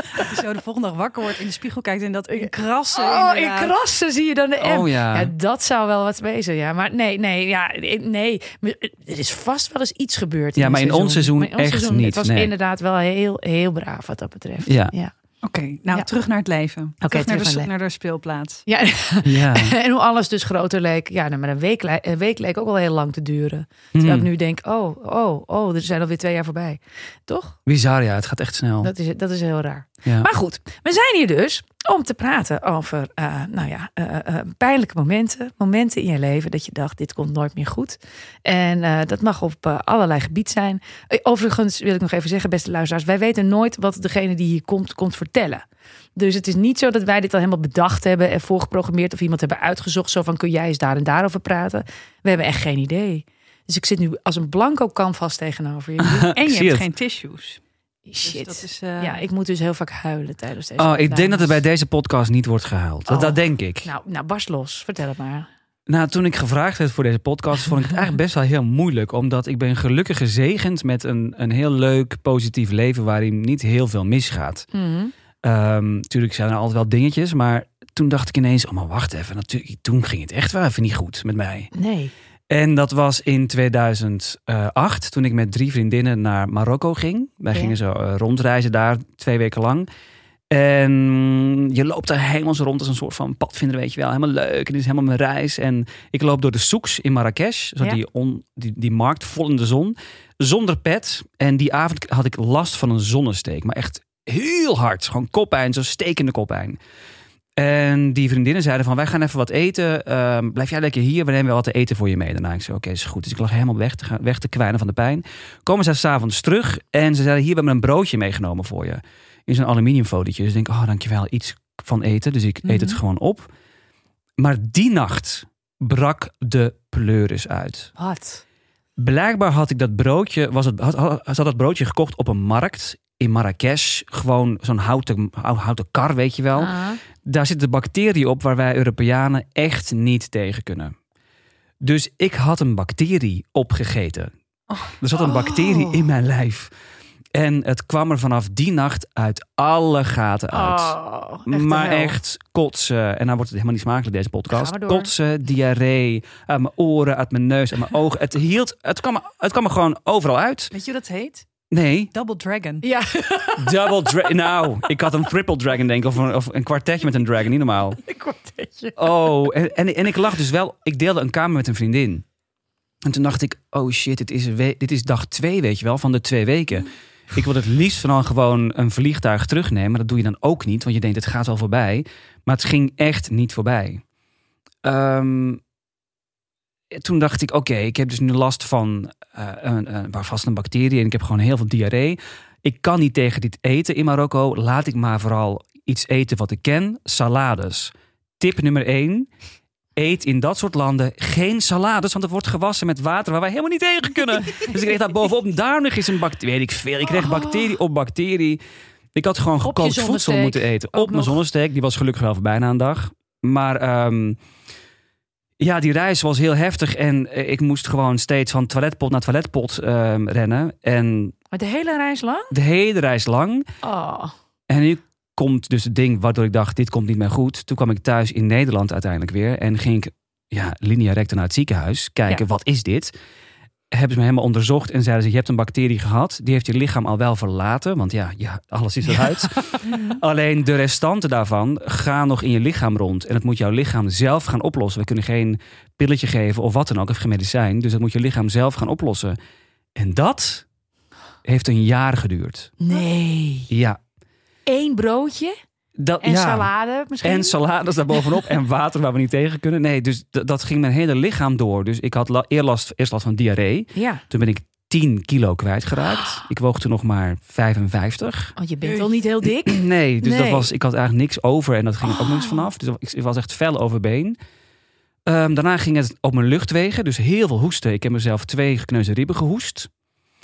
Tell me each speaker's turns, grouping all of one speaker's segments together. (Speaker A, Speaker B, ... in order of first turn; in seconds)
Speaker A: 0.1-3.7, 15.4-18.6, 56.3-57.6, 58.2-59.2, 122.7-123.0, 160.7-161.5, 162.1-162.8, 239.8-240.2
Speaker B: 2.3-15.1, 17.0-17.7, 18.7-27.6, 28.8-45.6, 46.1-56.3, 58.1-61.6, 63.1-65.5, 74.7-75.1, 81.7-82.1, 128.0-128.4, 136.6-137.0, 145.2-146.1, 150.5-152.2, 154.5-155.1, 162.8-164.3, 168.0-169.3, 207.1-207.8, 209.6-211.4, 221.5-222.5, 223.8-224.3, 252.8-253.7, 254.7-255.5, 256.2-257.6, 263.9-264.2, 268.6-270.7, 272.1-272.6
Speaker C: 4.6-5.3, 10.6-12.5, 14.6-14.9, 19.2-19.8, 23.9-24.3, 27.6-28.9, 30.0-30.3, 56.0-56.9, 60.8-63.9, 65.9-74.7, 75.4-81.7, 82.5-89.9, 90.5-106.8, 107.6-123.5, 124.4-127.9, 129.0-140.9, 141.8-144.3, 144.9-146.7, 147.3-160.7, 161.7-162.1, 163.6-168.0, 168.9-172.2, 173.0-184.0, 184.8-185.6, 186.9-199.3, 199.9-208.6, 209.1-214.4, 215.6-221.3, 222.5-223.7, 224.7-233.1, 233.9-249.4, 249.9-250.6, 251.4-252.8, 253.7-254.0, 256.0-256.7, 257.2-268.5, 269.6-274.4, 275.2-279.9